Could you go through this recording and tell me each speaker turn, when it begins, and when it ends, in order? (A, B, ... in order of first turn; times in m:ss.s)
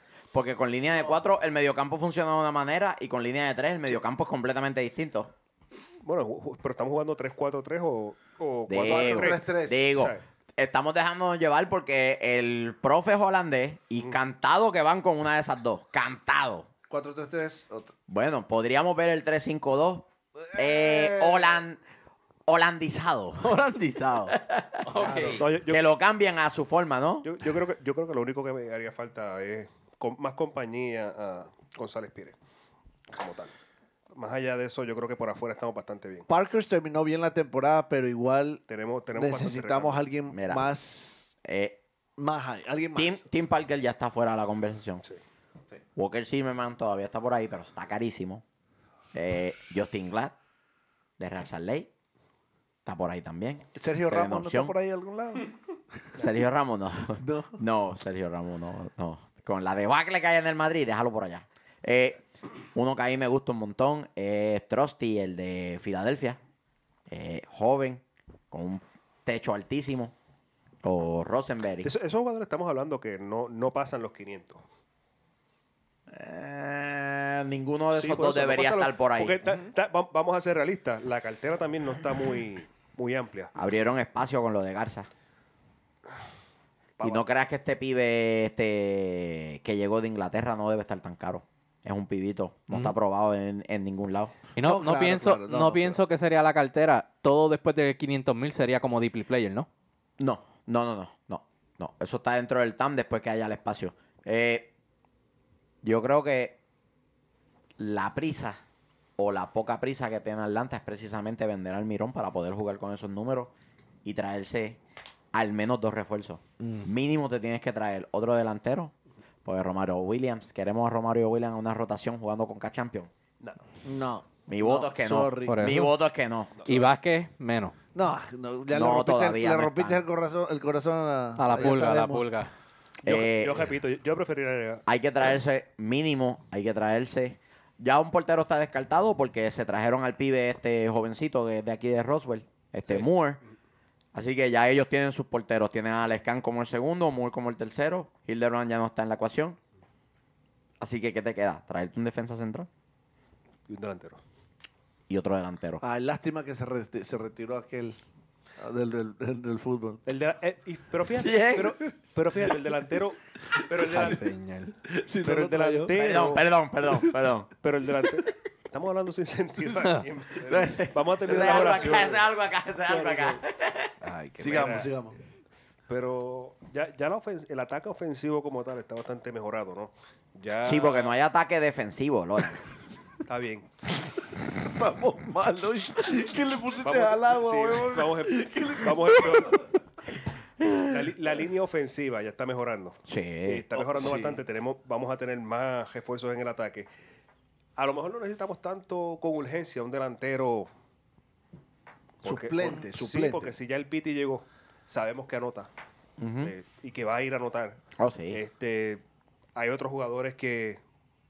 0:00.3-0:05.3 A
0:06.0-0:10.2 B
0:08.7-0:16.7 A
0:08.8-0:09.8 C
0:16.9-0:17.9 C
0:18.1-0:21.8 A
0:20.5-0:21.6 C
0:22.5-0:23.6 A
0:23.4-0:25.4 D
0:24.3-0:24.8 A
0:25.0-0:25.4 C
0:25.4-0:25.9 B
0:25.6-0:27.3 A
0:27.2-0:32.4 B
0:33.1-0:33.5 B
0:34.1-0:36.3 B
0:36.3-0:38.6 C
0:38.7-0:40.0 B
0:39.1-0:41.3 C
0:40.3-0:40.7 A
0:41.4-0:41.8 A
0:42.2-0:43.2 C
0:43.0-0:45.0 A
0:46.0-0:48.4 A
0:49.1-0:50.4 A
0:51.2-0:51.9 A
0:52.8-0:54.8 A
0:53.8-0:55.5 C
0:56.1-1:06.4 A
0:57.2-0:57.6 C
1:07.1-1:10.1 A
1:10.8-1:11.9 A
1:11.8-1:14.6 B
1:16.1-1:19.4 A
1:17.9-1:23.5 B
1:23.6-1:25.1 A
1:27.0-1:27.2 B
1:27.0-1:34.4 A
1:34.6-1:39.7 D
1:34.6-1:36.0 C
1:40.2-1:44.7 A
1:45.8-1:46.6 A
1:47.8-1:48.6 A
1:49.2-1:53.5 A
1:54.0-1:54.8 A
1:55.3-1:58.9 A
1:59.4-2:03.1 A
2:03.8-2:05.8 C
2:04.5-2:06.5 A
2:05.5-2:05.9 D
2:06.6-2:06.9 B
2:06.6-2:07.8 D
2:07.9-2:12.3 C
2:08.7-2:10.0 A
2:11.4-2:12.5 D
2:13.0-2:13.7 A
2:13.0-2:14.8 B
2:14.9-2:23.4 A
2:24.1-2:29.6 A
2:30.8-2:32.7 A
2:33.7-2:34.2 B
2:35.1-2:35.8 A
2:35.8-2:38.0 C
2:38.6-2:40.0 C
2:40.1-2:44.3 B
2:41.1-2:41.8 A
2:43.6-2:44.2 C
2:43.9-2:44.8 D
2:44.8-2:47.3 C
2:45.2-2:46.5 B
2:46.0-2:47.5 A
2:47.6-2:52.3 B
2:50.5-2:53.9 A
2:51.3-2:52.0 C
2:52.9-2:53.4 C
2:54.0-2:54.8 D
2:54.4-2:55.2 C
2:54.5-2:54.9 B
2:55.9-3:01.1 B
3:00.6-3:02.6 A
3:03.3-3:03.7 B
3:04.6-3:09.7 C
3:06.8-3:09.7 B
3:10.6-3:10.9 A
3:10.8-3:16.9 B
3:13.1-3:13.7 A
3:13.8-3:14.4 C
3:17.8-3:20.7 B
3:22.2-3:23.6 C
3:22.2-3:25.7 B
3:26.2-3:26.5 A
3:26.4-3:27.8 B
3:28.0-3:28.4 A
3:28.3-3:29.0 B
3:29.6-3:30.8 B